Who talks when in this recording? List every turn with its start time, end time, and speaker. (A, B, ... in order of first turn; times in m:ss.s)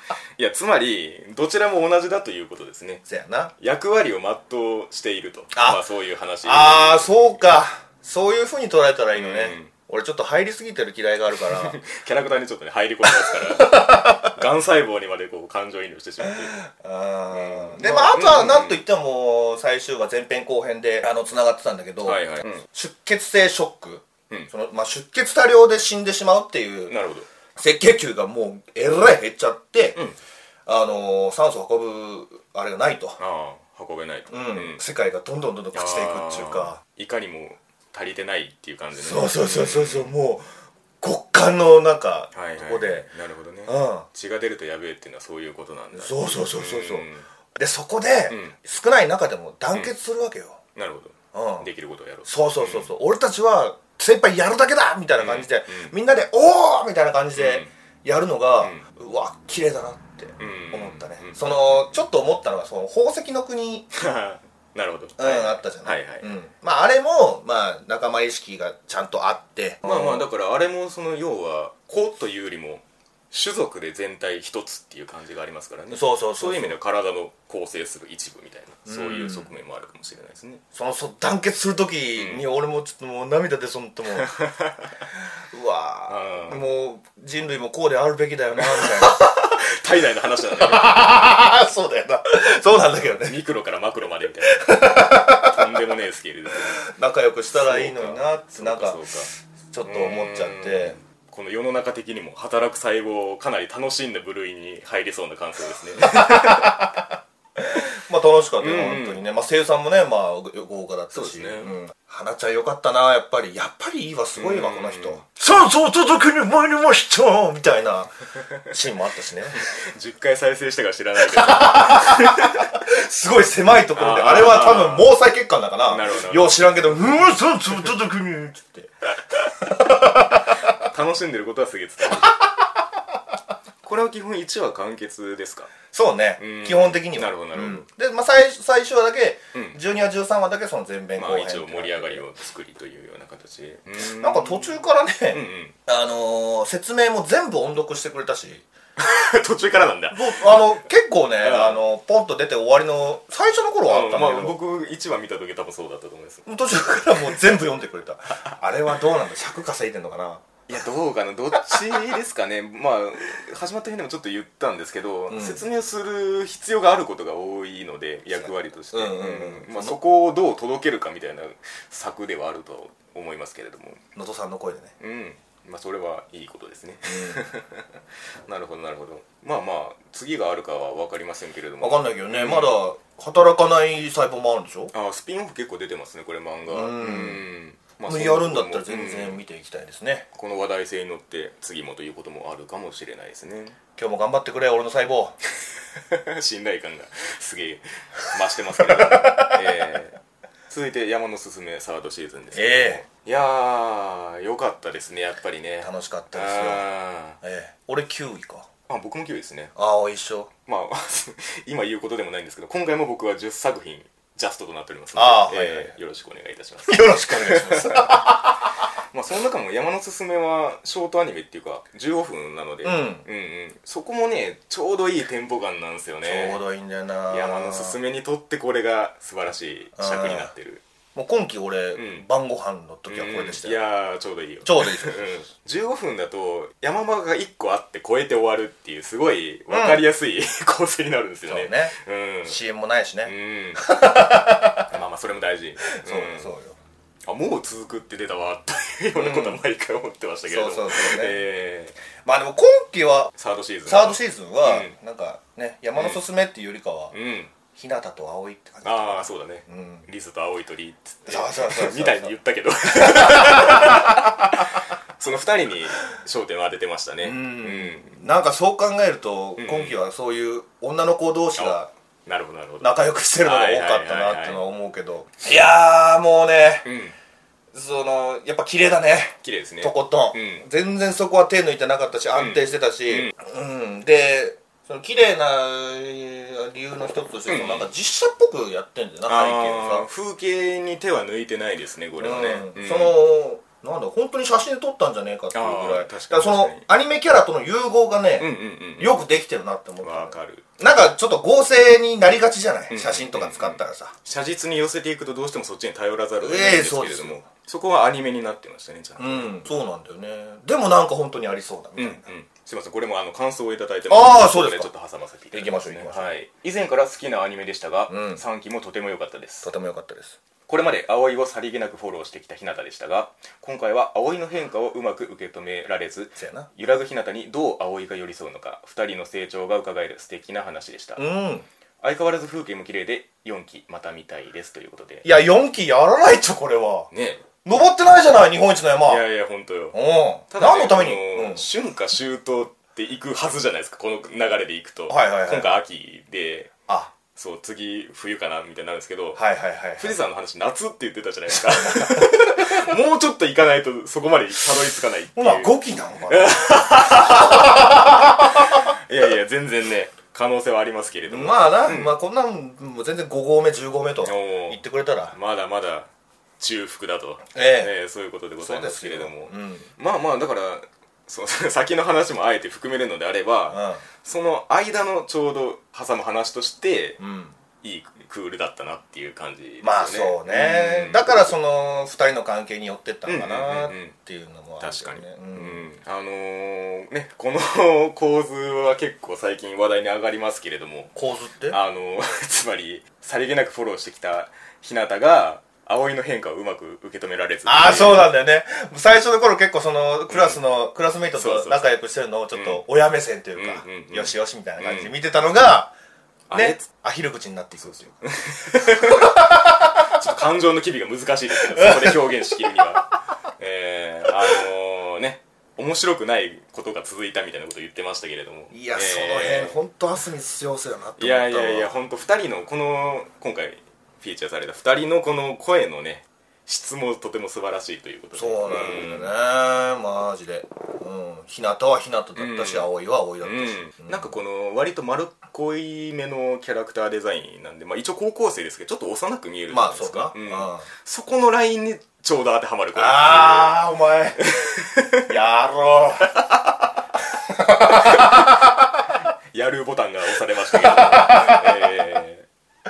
0:00.4-0:03.0 A
0:03.0-0:03.5 B
0:03.6-0:07.2 A
0:05.5-0:05.8 B
0:06.4-0:11.8 B
0:09.1-0:09.7 A
0:11.4-0:16.6 A
0:13.0-0:14.4 B
0:16.2-0:26.9 B
0:17.3-0:18.8 A
0:22.0-0:22.6 A
0:26.9-0:27.3 A
0:27.6-0:30.0 B
0:30.6-0:33.2 B
0:33.2-0:34.8 A
0:34.3-0:36.8 B
0:35.7-0:40.1 A
0:38.9-0:40.4 B
0:41.0-0:43.1 B
0:42.3-0:47.3 A
0:43.6-0:44.0 B
0:45.9-0:50.6 B
0:48.3-0:48.5 A
0:50.8-0:52.9 A
0:51.3-0:51.7 B
0:52.2-1:03.9 B
0:55.2-0:55.9 A
0:57.3-0:57.7 A
1:00.4-1:01.4 A
1:03.9-1:06.3 A
1:05.2-1:10.2 B
1:09.8-1:20.6 A
1:15.9-1:16.8 B
1:18.9-1:19.5 B
1:20.7-1:24.3 B
1:22.2-1:22.4 A
1:24.1-1:24.9 A
1:25.5-1:29.3 B
1:26.1-1:26.6 A
1:28.6-1:31.3 A
1:30.5-1:33.4 B
1:33.2-1:36.8 A
1:34.5-1:35.6 B
1:36.8-1:39.0 B
1:37.5-1:39.3 A
1:39.7-1:41.0 B
1:39.8-1:46.9 A
1:46.0-1:47.0 B
1:47.6-1:58.1 B
1:48.6-1:49.2 A
1:51.1-1:51.7 A
1:54.3-1:55.2 A
1:58.7-1:59.6 B
1:59.6-2:02.7 A
2:01.2-2:10.7 B
2:03.9-2:05.1 A
2:05.8-2:06.9 A
2:10.5-2:12.4 A
2:13.8-2:15.7 A
2:15.9-2:22.2 B
2:16.4-2:17.9 A
2:19.5-2:19.8 A
2:21.2-2:24.8 A
2:24.0-2:28.7 B
2:25.3-2:25.7 A
2:29.0-2:30.6 A
2:30.1-2:34.6 B
2:31.4-2:31.8 A
2:33.9-2:36.5 A
2:36.4-2:40.4 B
2:40.7-2:54.0 A
2:45.3-2:45.6 B
2:48.4-2:50.0 B
2:54.1-2:54.9 B
2:55.0-2:57.9 A
2:57.1-2:57.4 B
2:58.4-3:02.8 A
3:01.8-3:04.9 B
3:04.9-3:09.4 A
3:06.7-3:07.4 B
3:08.1-3:10.3 B
3:10.3-3:13.8 A
3:14.0-3:15.4 B
3:15.9-3:20.2 A
3:18.8-3:19.6 B
3:20.7-3:27.4 A
3:22.5-3:23.0 B
3:25.8-3:26.9 B
3:27.4-3:28.7 B
3:28.9-3:29.7 A
3:29.7-3:30.5 B
3:30.6-3:38.5 A
3:35.1-3:35.9 B
3:36.8-3:38.7 B
3:39.1-3:46.6 A
3:42.8-3:43.2 B
3:46.2-3:48.0 B
3:47.3-3:50.8 A
3:50.0-3:50.5 B
3:51.1-3:53.8 B
3:51.9-3:52.2 A
3:53.1-4:02.6 A
3:54.6-3:55.3 B
3:59.7-4:00.0 B
4:01.5-4:01.9 B
4:02.4-4:04.9 B
4:03.2-4:03.9 A
4:04.9-4:06.5 A
4:06.0-4:06.8 B
4:07.3-4:12.0 A
4:09.2-4:09.6 B
4:10.5-4:11.4 B
4:12.2-4:13.3 B
4:13.4-4:14.9 A
4:13.8-4:17.1 B
4:17.1-4:17.5 A
4:17.7-4:20.0 B
4:18.8-4:28.2 A
4:21.3-4:22.3 B
4:23.0-4:24.3 B
4:27.2-4:31.9 B
4:29.6-4:30.0 A
4:31.6-4:34.6 A
4:32.8-4:36.9 B
4:36.8-4:37.1 A
4:37.7-4:50.1 B
4:39.4-4:40.6 A
4:42.3-4:43.3 A
4:47.5-4:47.9 A
4:49.2-4:53.2 A
4:52.2-5:04.1 B
4:55.5-4:56.8 A
4:58.4-4:59.2 A
5:00.0-5:00.6 A
5:02.9-5:09.6 A
5:06.4-5:07.4 B
5:09.2-5:12.3 B
5:12.0-5:19.7 A
5:14.1-5:14.9 B
5:15.5-5:16.3 B
5:18.1-5:18.4 B
5:19.6-5:20.4 B
5:20.7-5:31.2 A
5:26.4-5:26.7 B
5:31.2-5:31.6 B
5:32.0-5:35.3 A
5:35.2-5:37.1 B
5:37.1-5:37.4 A
5:37.6-5:39.2 B
5:39.0-5:40.0 A
5:39.9-5:41.6 B
5:40.5-5:46.7 A
5:45.1-5:45.7 B
5:47.3-5:49.4 A
5:49.4-5:50.1 B
5:50.0-5:55.7 A
5:51.5-5:52.9 B
5:55.4-5:58.9 B
5:56.3-6:02.2 A
6:01.3-6:05.3 B
6:04.2-6:17.2 A
6:07.5-6:07.9 B
6:08.6-6:09.9 B
6:13.7-6:14.0 B
6:17.2-6:17.6 B
6:17.8-6:21.5 A
6:19.8-6:25.8 B
6:23.2-6:24.1 A
6:24.8-6:31.1 A
6:31.1-6:31.8 B
6:31.7-6:38.3 A
6:37.6-6:45.9 B
6:40.3-6:40.6 A
6:41.3-6:41.9 A
6:42.5-6:42.8 A
6:43.5-6:45.1 A
6:46.5-6:46.9 A
6:46.5-6:48.2 B
6:47.8-6:59.8 A
6:48.7-6:50.0 B
6:51.8-6:52.1 B
6:58.7-7:01.9 B
7:01.2-7:09.3 A
7:08.3-7:14.3 B
7:12.4-7:12.9 A
7:13.4-7:23.8 A
7:19.7-7:20.8 B
7:22.9-7:24.5 B
7:24.4-7:25.3 A
7:25.3-7:26.5 B
7:27.3-7:28.8 B
7:27.8-7:28.6 A
7:29.5-7:32.5 A
7:30.7-7:31.8 B